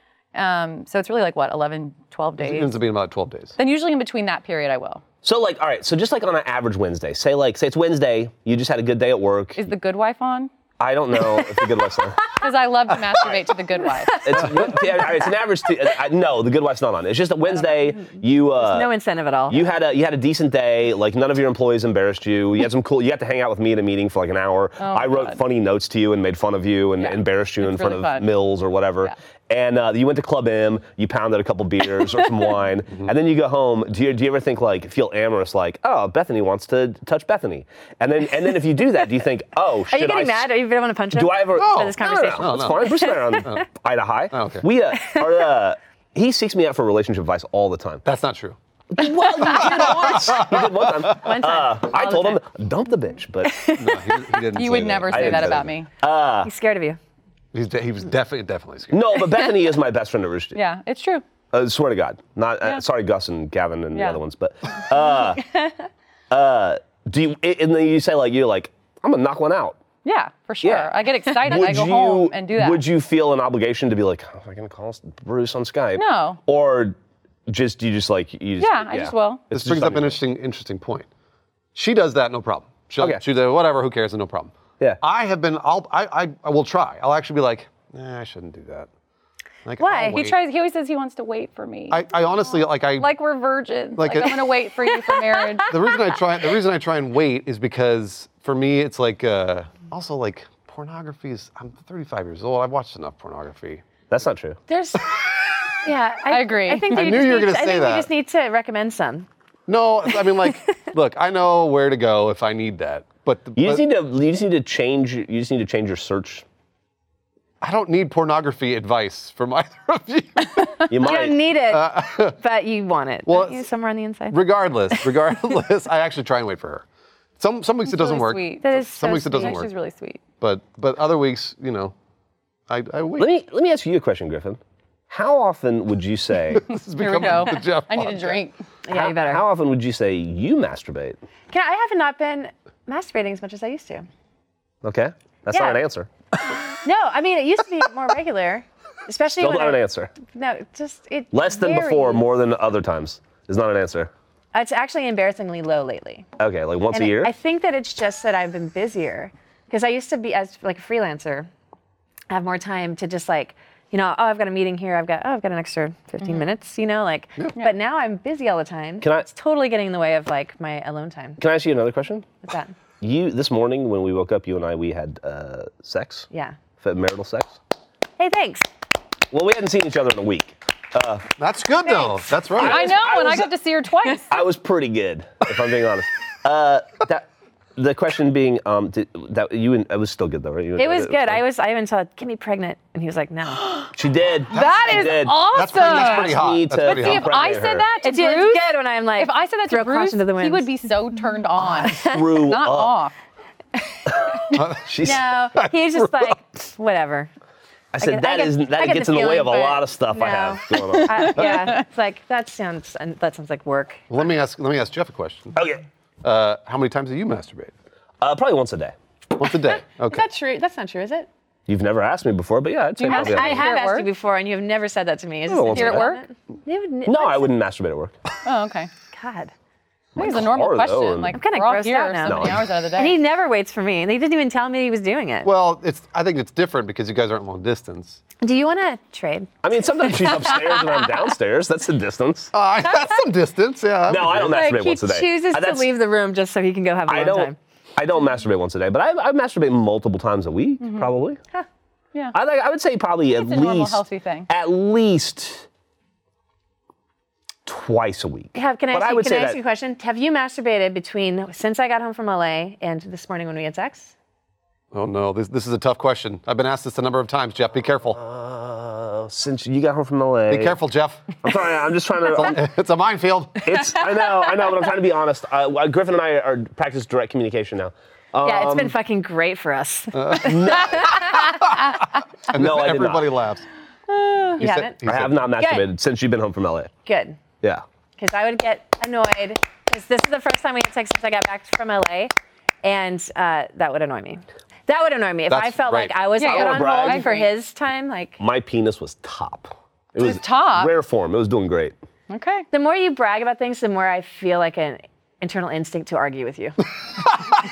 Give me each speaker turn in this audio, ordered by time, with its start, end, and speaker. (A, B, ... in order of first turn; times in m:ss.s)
0:00.3-0:02.8 A
0:02.4-0:03.6 B
0:03.6-0:05.0 A
0:05.2-0:09.6 C
0:09.6-0:10.5 A
0:10.8-0:12.2 C
0:12.4-0:14.5 A
0:14.2-0:18.9 C
0:18.5-0:19.6 D
0:19.5-0:40.5 C
0:24.8-0:25.4 A
0:27.0-0:28.3 A
0:39.9-0:43.5 D
0:41.1-0:48.0 C
0:41.6-0:43.6 B
0:44.3-0:44.6 B
0:48.0-0:48.6 B
0:48.9-0:53.6 C
0:49.4-0:50.8 B
0:49.6-0:50.4 D
0:51.1-0:52.4 D
0:53.4-0:54.4 D
0:53.8-0:55.7 B
0:54.5-0:55.9 A
0:54.6-0:56.5 C
0:56.4-0:57.0 D
0:57.5-0:59.3 B
0:58.9-1:00.6 C
1:00.5-1:01.2 A
1:01.5-1:05.4 C
1:03.9-1:04.2 A
1:06.3-1:09.8 C
1:10.0-1:12.8 A
1:10.6-1:20.2 C
1:16.0-1:16.4 A
1:18.6-1:19.4 A
1:19.5-1:21.1 B
1:21.8-1:28.9 B
1:29.6-1:30.4 B
1:29.8-1:30.2 D
1:30.0-1:32.1 A
1:31.9-1:33.1 B
1:33.0-1:35.8 A
1:34.0-1:34.4 B
1:35.7-1:43.8 B
1:44.1-1:44.6 C
1:44.7-1:45.1 D
1:45.8-1:49.3 D
1:46.3-1:47.3 A
1:46.9-1:48.1 B
1:49.7-1:53.8 B
1:53.6-1:56.4 C
1:57.6-2:00.8 B
2:00.6-2:00.9 A
2:00.9-2:01.4 C
2:01.0-2:04.4 D
2:01.7-2:02.4 B
2:03.3-2:03.7 B
2:04.3-2:06.8 B
2:07.4-2:09.7 B
2:07.9-2:10.2 A
2:08.6-2:09.6 D
2:10.4-2:11.9 B
2:12.7-2:13.3 B
2:13.2-2:16.7 C
2:16.5-2:18.4 B
2:17.0-2:18.6 A
2:18.8-2:19.4 D
2:18.9-2:21.2 C
2:21.5-2:24.1 D
2:24.8-2:26.1 C
2:25.5-2:25.8 D
2:26.8-2:32.3 D
2:29.4-2:30.1 C
2:31.3-2:34.1 C
2:34.5-2:36.3 D
2:36.4-2:37.3 C
2:36.9-2:41.5 D
2:42.3-2:51.4 D
2:49.0-2:49.3 C
2:51.4-2:52.3 C
2:52.4-2:52.7 D
2:53.0-2:56.3 C
2:56.3-2:56.6 D
2:56.8-2:57.6 C
2:58.2-2:58.7 D
2:59.3-3:01.3 C
3:01.4-3:02.9 B
3:01.9-3:02.2 D
3:02.5-3:03.6 C
3:02.6-3:04.4 A
3:04.3-3:11.4 C
3:10.8-3:13.9 D
3:13.9-3:17.9 C
3:14.5-3:18.7 A
3:14.6-3:17.5 B
3:18.0-3:20.7 D
3:19.2-3:23.2 A
3:21.6-3:22.3 D
3:22.0-3:22.9 C
3:24.1-3:25.4 C
3:24.5-3:26.4 B
3:25.0-3:27.3 D
3:27.9-3:31.7 C
3:28.0-3:34.0 D
3:30.9-3:31.8 A
3:34.1-3:35.6 B
3:35.6-3:35.8 C
3:36.2-3:37.7 B
3:38.2-3:39.0 C
3:39.4-3:40.2 B
3:40.1-3:41.3 D
3:41.7-3:43.7 C
3:43.0-3:44.1 A
3:43.1-3:47.5 D
3:45.5-3:46.1 C
3:45.6-3:46.2 A
3:47.1-3:48.1 C
3:48.4-3:48.9 A
3:49.1-3:49.5 D
3:50.2-3:51.4 C
3:50.2-3:53.2 A
3:51.3-3:55.5 D
3:52.2-3:52.6 C
3:55.4-3:58.2 B
3:58.4-3:59.6 D
3:59.6-4:02.5 C
4:02.5-4:04.6 B
4:04.1-4:05.9 C
4:04.4-4:07.6 D
4:07.1-4:11.4 C
4:10.8-4:11.1 A
4:12.3-4:15.7 C
4:13.3-4:14.5 A
4:17.7-4:19.6 C
4:18.6-4:24.1 D
4:24.9-4:28.2 B
4:28.2-4:30.8 C
4:30.5-4:31.5 B
4:31.4-4:32.6 C
4:32.3-4:33.8 B
4:33.6-4:39.0 C
4:38.4-4:41.6 D
4:40.1-4:41.9 B
4:40.4-4:41.4 C
4:42.5-4:43.7 B
4:42.5-4:43.3 C
4:44.1-4:44.6 A
4:44.6-4:45.4 B
4:44.6-4:45.0 D
4:45.0-4:46.9 C
4:47.0-4:47.4 D
4:48.2-4:58.4 D
4:55.5-4:56.2 B
4:56.4-4:57.5 A
4:56.4-4:57.3 C
4:58.4-5:02.0 C
5:00.2-5:00.9 A
5:02.3-5:02.7 A
5:02.7-5:06.8 D